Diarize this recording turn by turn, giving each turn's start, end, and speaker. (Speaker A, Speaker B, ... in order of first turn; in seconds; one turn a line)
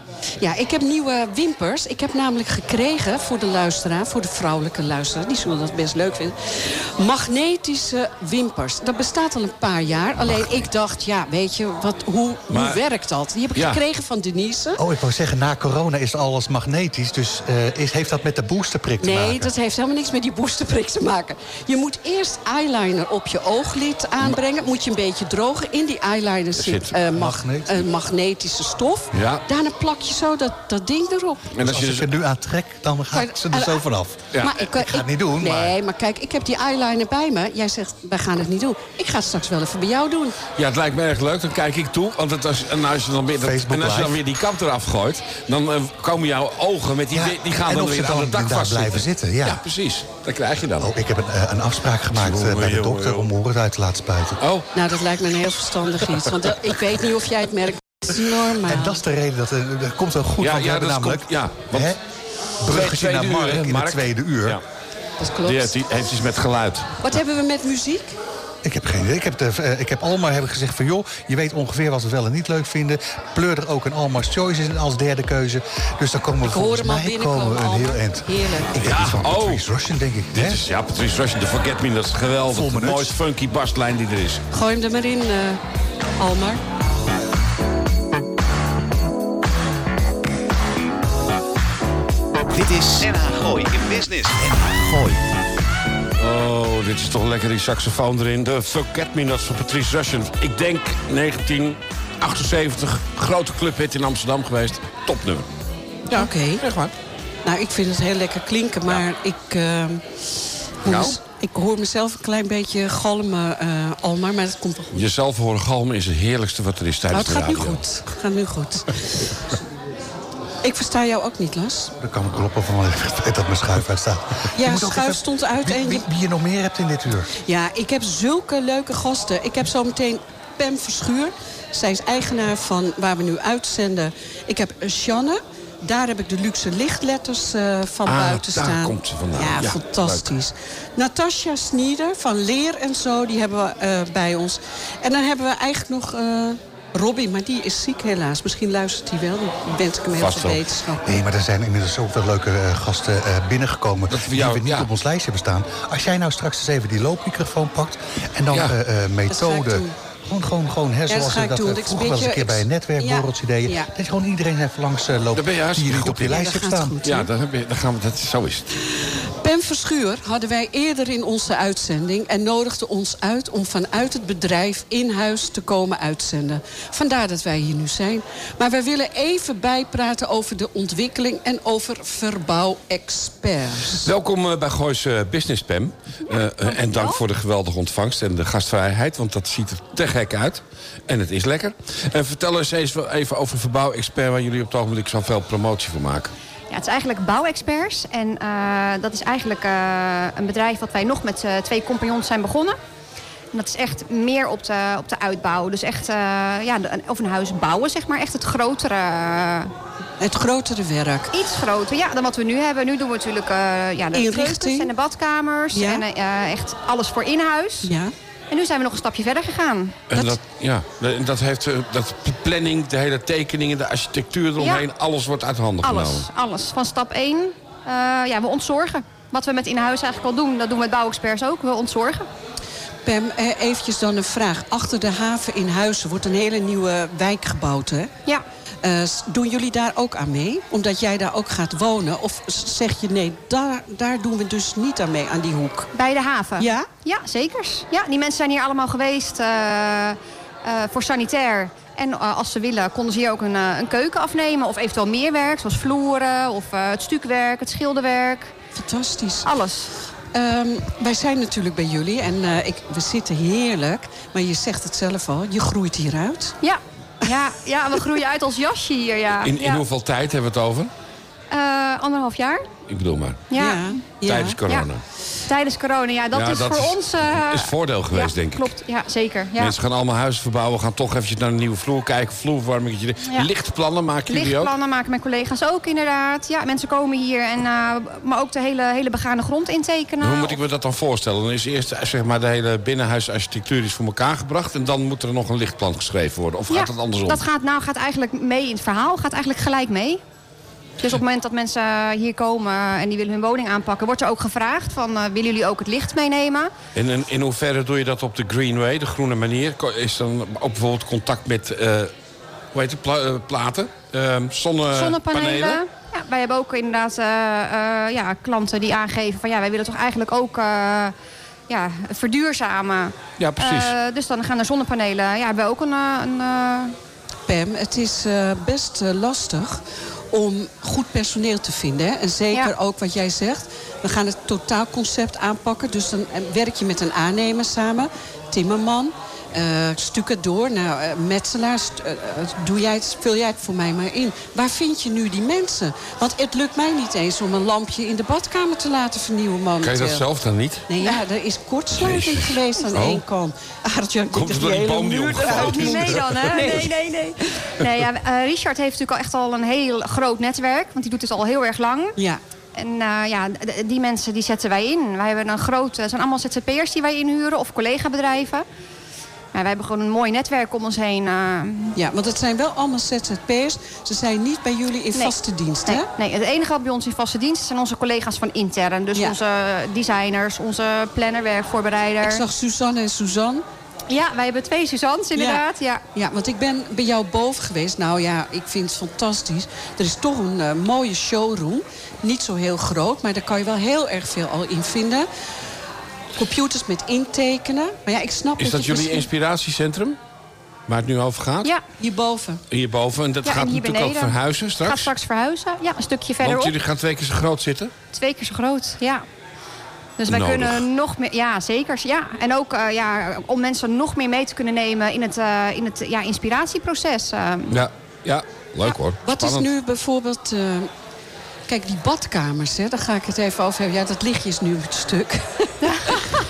Speaker A: 0.4-14.8
Speaker B: 12.5-12.8
Speaker B: 13.5-13.8
Speaker C: 14.8-19.5
Speaker A: 19.0-31.5
Speaker B: 26.6-26.9
Speaker C: 27.1-27.9
Speaker B: 29.1-29.4
Speaker B: 31.5-32.1
Speaker C: 31.6-35.7
Speaker A: 33.1-33.8
Speaker A: 34.4-40.4
Speaker B: 40.6-50.9
Speaker C: 43.4-44.2
Speaker C: 47.1-49.6
Speaker C: 50.8-54.4
Speaker B: 52.1-53.3
Speaker B: 54.4-54.7
Speaker A: 54.7-59.0
Speaker C: 58.6-62.0
Speaker B: 60.4-61.9
Speaker C: 62.6-64.6
Speaker B: 62.6-64.6
Speaker A: 65.2-65.7
Speaker B: 65.4-67.0
Speaker A: 67.0-68.1
Speaker C: 68.6-80.6
Speaker A: 76.4-78.8
Speaker B: 78.8-79.6
Speaker B: 80.3-84.4
Speaker C: 82.5-83.2
Speaker A: 84.5-85.6
Speaker A: 86.2-86.6
Speaker D: 92.5-95.2
Speaker B: 96.2-105.5
Speaker B: 106.1-106.9
Speaker A: 106.1-106.6
Speaker A: 107.4-110.0
Speaker A: 110.8-115.0
Speaker B: 110.8-111.2
Speaker B: 114.9-117.8
Speaker A: 117.1-119.3
Speaker A: 120.6-121.9
Speaker C: 122.0-127.3
Speaker A: 124.5-126.0
Speaker A: 127.4-151.2
Speaker B: 138.1-140.3
Speaker B: 150.1-150.6
Speaker C: 151.0-167.0
Speaker B: 154.1-154.9
Speaker A: 159.3-159.9
Speaker A: 161.1-163.9
Speaker B: 165.3-166.4
Speaker A: 166.3-167.3
Speaker B: 167.0-168.7
Speaker A: 168.9-184.1
Speaker B: 184.0-196.3
Speaker E: 186.3-187.2
Speaker E: 196.7-202.8
Speaker E: 203.5-209.7
Speaker A: 210.2-211.3
Speaker E: 211.3-217.9
Speaker A: 214.1-214.9
Speaker A: 215.7-216.0
Speaker A: 217.8-218.1
Speaker E: 218.5-220.0
Speaker B: 220.1-226.3
Speaker E: 224.6-224.8
Speaker E: 225.8-232.2
Speaker A: 233.0-238.1
Speaker A: 238.8-245.9
Speaker E: 245.9-258.5
Speaker A: 246.6-246.9
Speaker A: 258.7-259.5
Speaker E: 259.4-259.9
Speaker A: 260.3-266.6
Speaker E: 266.6-269.8
Speaker B: 269.4-270.9
Speaker E: 271.5-272.6
Speaker B: 272.9-273.4
Speaker E: 273.5-273.9
Speaker A: 273.6-274.6
Speaker B: 274.2-275.0
Speaker E: 275.5-279.7
Speaker B: 276.3-278.7
Speaker B: 279.6-284.7
Speaker E: 284.3-290.6
Speaker B: 290.2-297.4
Speaker E: 296.7-300.2
Speaker E: 301.0-306.7
Speaker B: 306.9-312.1
Speaker B: 312.7-315.8
Speaker E: 314.9-321.1
Speaker E: 321.7-326.9
Speaker B: 323.4-323.9
Speaker A: 327.5-350.2
Speaker B: 349.8-350.9
Speaker A: 350.9-357.0
Speaker B: 351.9-353.2
Speaker B: 354.3-356.9
Speaker E: 355.5-362.2
Speaker E: 362.7-368.6
Speaker E: 369.5-371.9
Speaker A: 371.9-376.1
Speaker E: 375.1-382.4
Speaker A: 382.2-383.6
Speaker E: 384.1-386.0
Speaker A: 385.3-385.6
Speaker A: 386.1-395.3
Speaker A: 396.4-399.3
Speaker B: 398.6-400.2
Speaker B: 400.9-401.7
Speaker A: 402.0-402.6
Speaker B: 402.7-405.1
Speaker E: 403.4-406.7
Speaker B: 406.4-407.9
Speaker E: 408.1-409.2
Speaker E: 410.2-417.8
Speaker B: 410.3-410.8
Speaker B: 417.7-419.7
Speaker A: 419.2-420.9
Speaker A: 421.7-425.7
Speaker E: 425.8-426.2